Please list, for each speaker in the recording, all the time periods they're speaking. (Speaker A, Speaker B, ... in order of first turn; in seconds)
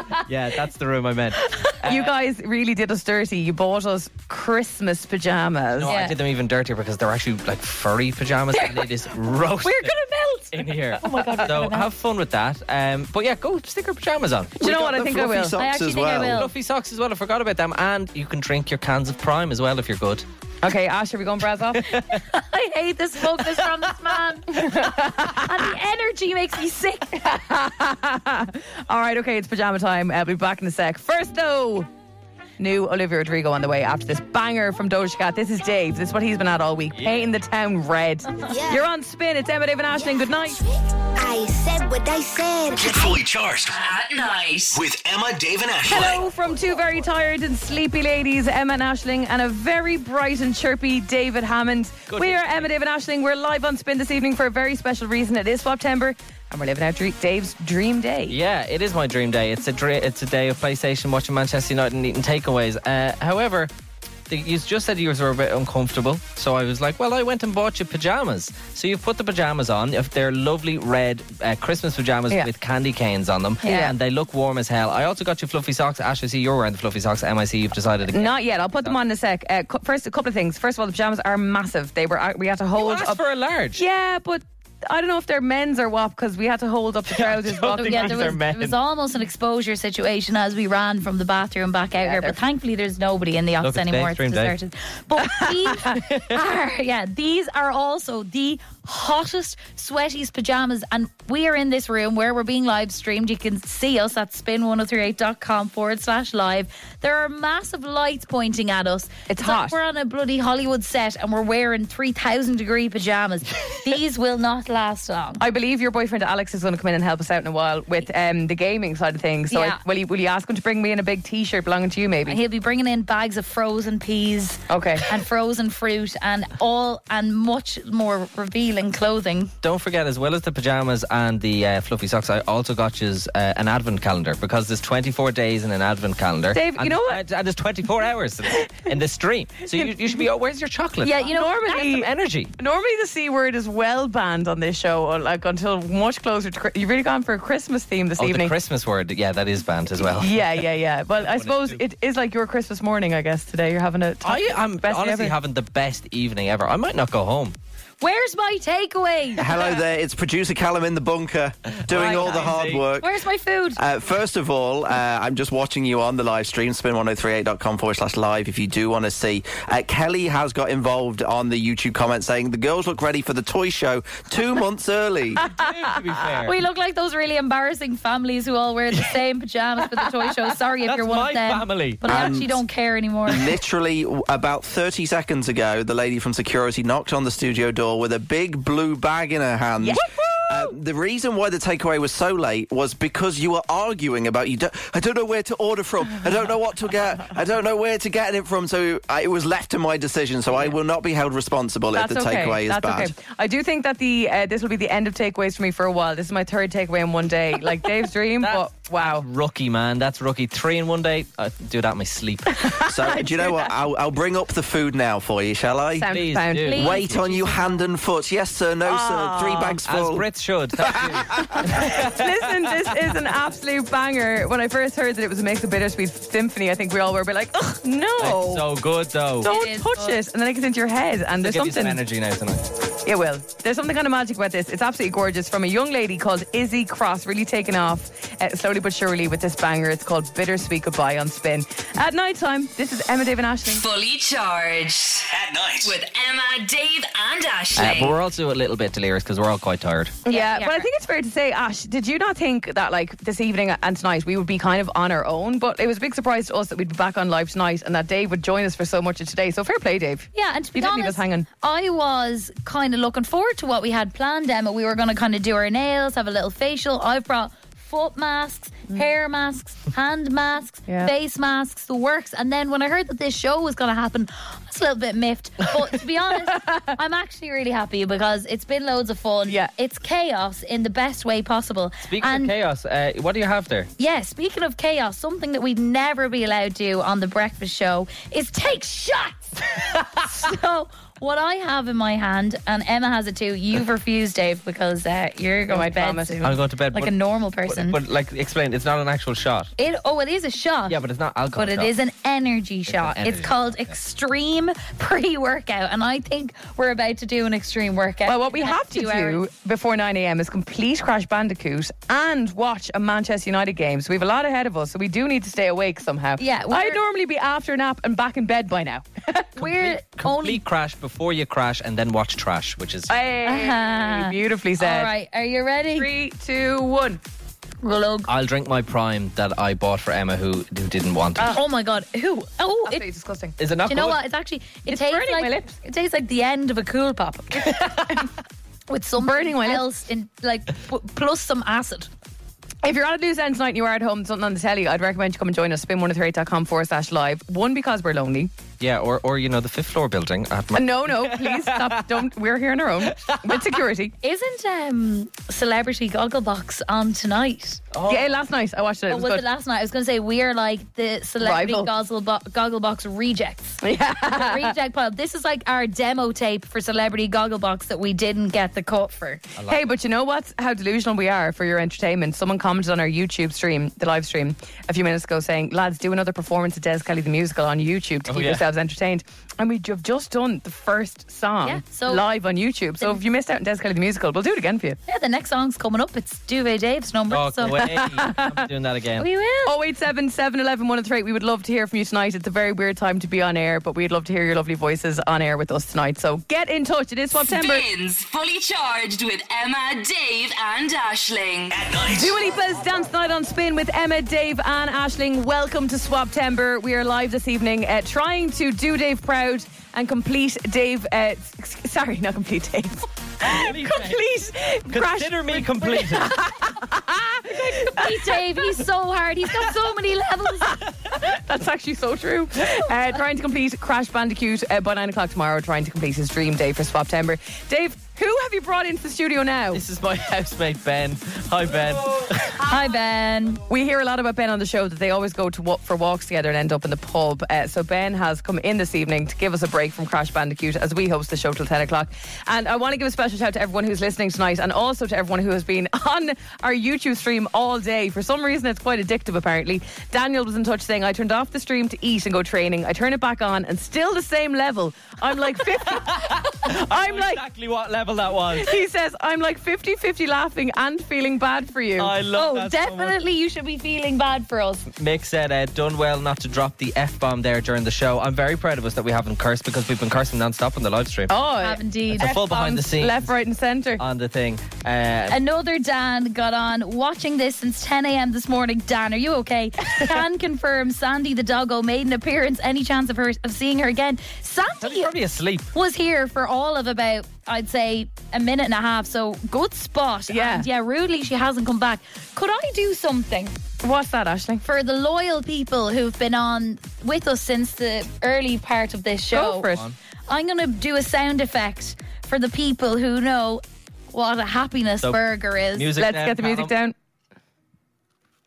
Speaker A: 0.2-2.1, 5.8-9.9, 10.5-14.6, 16.2-20.2, 21.8-22.2, 52.1-52.7, 58.3-63.7, 64.3-79.0, 82.8-83.8, 87.1-88.8, 93.6-94.5, 129.6-142.5, 148.2-150.5, 151.2-151.8, 154.2-157.6, 161.7-162.9, 175.4-176.6, 180.8-182.4, 208.4-212.7, 216.1-217.2, 219.8-222.2, 228.2-229.5, 231.4-232.6, 247.8-250.2, 282.1-283.9, 296.4-299.7, 300.9-301.9, 302.9-303.9, 319.6-323.1, 328.3-331.6, 333.6-334.2, 348.8-352.0, 353.2-353.7, 357.9-358.3, 369.6-369.9, 378.3-378.6, 387.3-389.3, 413.4-414.3, 414.9-416.5, 429.7-432.6, 455.7-458.7, 462.0-463.2, 465.0-471.3, 472.2-473.3, 474.0-475.4, 484.8-485.7, 505.7-506.7
Speaker B: 1.9-5.9, 11.0-11.5, 14.6-15.6, 20.6-21.9, 24.5-25.5, 27.2-31.9, 32.6-40.6, 45.9-58.4, 78.1-83.2, 83.7-88.4, 92.0-92.4, 95.3-96.0, 109.3-109.8, 115.4-122.4, 124.7-125.1, 136.5-137.2, 141.0-148.5, 150.0-155.3, 189.8-190.8, 200.5-200.8, 201.9-209.3, 212.5-213.7, 216.0-216.9, 218.9-219.8, 221.6-228.7, 229.4-232.0, 233.1-243.8, 250.2-261.5, 270.9-271.1, 276.6-276.9, 295.7-296.4, 308.3-319.5, 323.1-325.1, 326.0-327.2, 332.9-333.6, 334.9-335.7, 339.2-339.8, 342.8-348.5, 350.8-354.1, 358.1-359.4, 361.4-361.9, 363.8-364.8, 369.7-385.0, 387.7-388.6, 389.7-397.9, 402.1-418.8, 420.7-429.8, 433.7-457.4, 458.6-462.1, 471.3-471.8, 472.8-474.0, 490.3-490.7, 493.8-494.6, 499.3-499.8, 506.0-506.9
Speaker C: 5.9-6.2, 9.7-10.5, 11.0-11.9, 15.6-16.5, 22.1-27.3, 73.6-73.9, 87.7-115.4, 119.5-119.8, 122.2-129.5, 141.1-141.6, 158.0-159.7, 162.1-163.8, 176.5-183.6, 216.7-217.8, 229.4-230.2, 250.3-250.9, 260.3-282.5, 284.0-298.0, 299.8-301.0, 301.6-309.4, 316.4-317.0, 319.6-320.6, 323.4-326.1, 327.8-328.3, 331.4-333.0, 333.9-338.3, 338.9-342.1, 354.2-357.9, 359.1-369.4, 381.6-382.3, 385.1-388.1, 389.2-389.8, 417.6-420.8, 432.6-433.6, 462.3-464.9, 471.6-472.8, 475.3-485.1, 485.7-493.6, 494.6-499.7, 500.3-505.9
Speaker D: 14.6-16.4, 159.4-163.2, 163.8-175.4, 182.1-182.6, 183.3-203.1, 212.8-216.1, 216.7-220.2, 220.8-221.5
Speaker E: 38.5-38.9, 41.2-43.2
Speaker F: 42.8-43.8, 44.7-46.2, 245.3-245.9, 401.7-402.4
Speaker G: 43.7-44.8, 243.7-245.3, 245.8-248.2, 397.4-401.8